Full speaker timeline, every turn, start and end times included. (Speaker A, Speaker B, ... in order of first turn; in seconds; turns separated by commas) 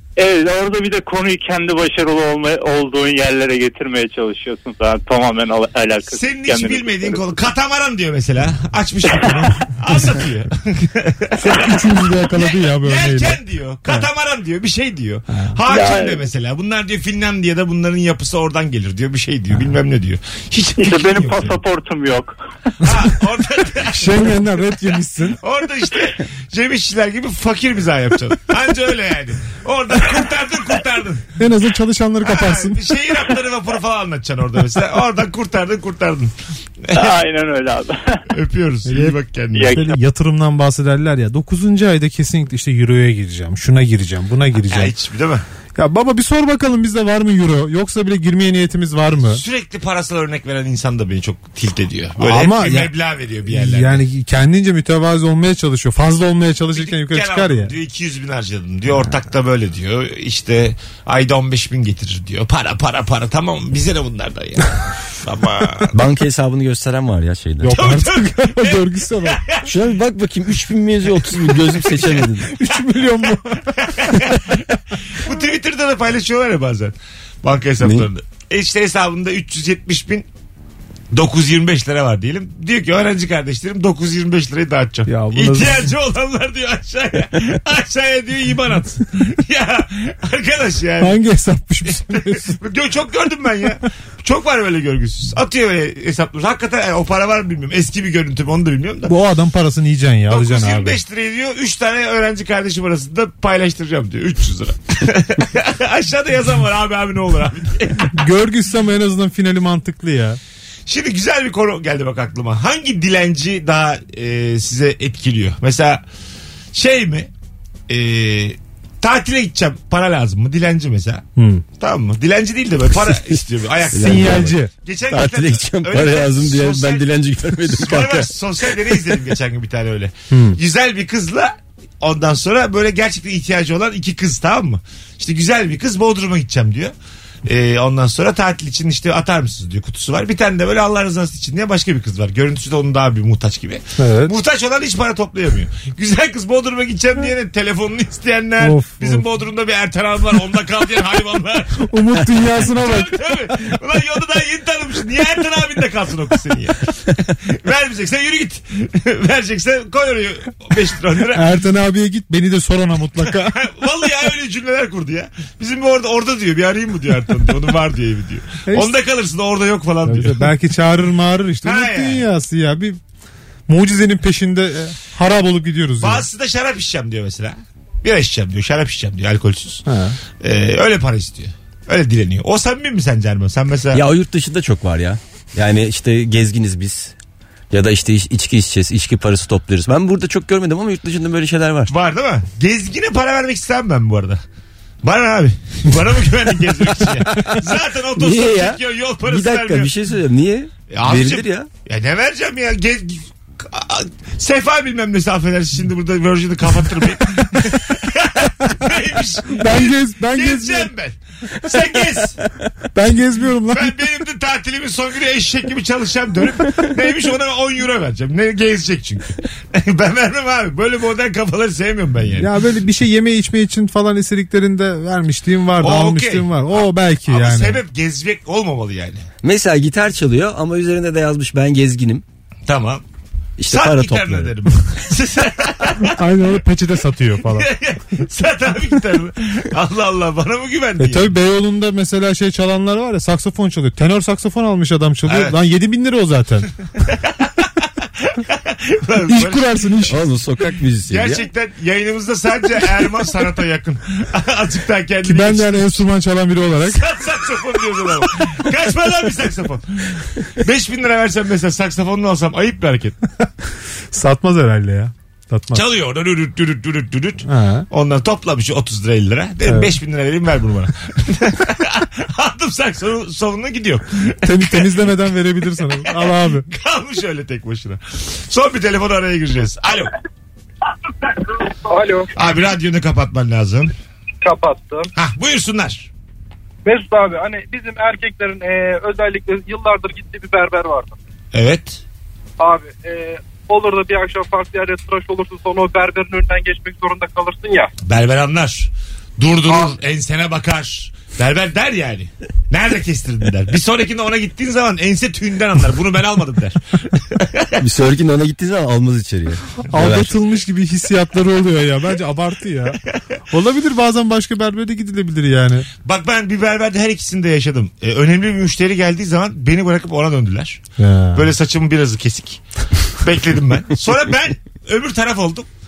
Speaker A: 0.2-7.2, Speaker B: 6.1-11.7, Speaker C: 9.3-10.0, Speaker C: 11.3-14.1, Speaker B: 12.3-21.6, Speaker C: 15.3-15.6, Speaker A: 15.7-16.2, Speaker A: 20.8-22.3, Speaker B: 22.8-24.5, Speaker C: 23.9-25.4, Speaker B: 25.4-31.3, Speaker C: 31.4-32.8, Speaker B: 32.2-36.3, Speaker B: 36.9-37.2, Speaker A: 36.9-38.2, Speaker B: 38.3-39.8, Speaker C: 38.9-44.9, Speaker A: 39.5-40.0, Speaker B: 44.7-45.4, Speaker C: 45.8-49.4, Speaker B: 49.2-54.0, Speaker C: 52.2-52.9, Speaker C: 53.5-57.7, Speaker B: 56.7-65.9, Speaker D: 65.9-67.8, Speaker C: 67.6-69.4, Speaker B: 67.7-69.6, Speaker D: 69.6-72.5, Speaker C: 72.5-74.3, Speaker B: 73.8-74.6, Speaker B: 75.2-80.3, Speaker D: 77.8-78.1, Speaker B: 81.1-91.2, Speaker C: 85.1-85.9, Speaker C: 91.0-92.6, Speaker B: 91.8-99.1, Speaker C: 99.1-101.0, Speaker B: 100.3-108.2, Speaker C: 108.1-110.4, Speaker B: 110.9-116.0, Speaker B: 116.7-117.3, Speaker B: 117.9-121.2, Speaker C: 121.4-121.6, Speaker B: 121.8-127.0, Speaker D: 123.9-124.5, Speaker C: 124.0-124.7, Speaker D: 125.1-129.2, Speaker B: 127.7-136.9, Speaker C: 130.3-130.6, Speaker B: 137.4-161.5, Speaker C: 144.0-144.3, Speaker C: 148.6-149.2, Speaker C: 151.8-153.6, Speaker C: 161.3-163.6, Speaker B: 163.2-170.5, Speaker C: 168.7-168.9, Speaker C: 170.0-173.0, Speaker B: 171.6-172.3, Speaker C: 173.7-176.2, Speaker B: 176.0-179.8, Speaker C: 179.8-180.2, Speaker B: 180.4-184.0, Speaker D: 183.9-187.2, Speaker D: 187.7-191.9, Speaker B: 191.9-194.4, Speaker B: 195.0-199.9, Speaker D: 198.1-201.7, Speaker B: 200.9-212.4, Speaker C: 209.5-210.9, Speaker C: 212.9-213.9, Speaker B: 213.7-222.5, Speaker C: 222.4-227.8, Speaker B: 225.8-229.2, Speaker D: 229.4-232.2, Speaker B: 232.7-233.0, Speaker D: 233.6-234.5, Speaker B: 233.7-236.2, Speaker C: 236.0-237.7, Speaker B: 237.5-241.3, Speaker C: 241.0-246.7, Speaker B: 245.3-245.6, Speaker B: 247.0-247.7, Speaker B: 248.2-249.8, Speaker C: 249.3-250.2, Speaker D: 250.1-251.5, Speaker B: 251.1-256.0, Speaker C: 255.2-257.0, Speaker B: 256.8-263.2, Speaker C: 264.1-265.8, Speaker B: 265.7-275.2, Speaker C: 267.4-267.9, Speaker C: 269.7-269.9, Speaker C: 274.4-276.6, Speaker B: 275.8-280.1, Speaker E: 281.9-282.3, Speaker B: 282.3-283.9, Speaker E: 284.4-285.1, Speaker B: 285.1-286.1, Speaker E: 286.9-291.1, Speaker B: 291.5-292.0, Speaker E: 292.6-297.9, Speaker B: 298.0-307.7, Speaker D: 307.8-310.3, Speaker C: 309.9-313.0, Speaker C: 313.5-315.9, Speaker B: 316.0-320.8, Speaker C: 321.0-321.5, Speaker B: 321.3-322.6, Speaker B: 323.2-325.7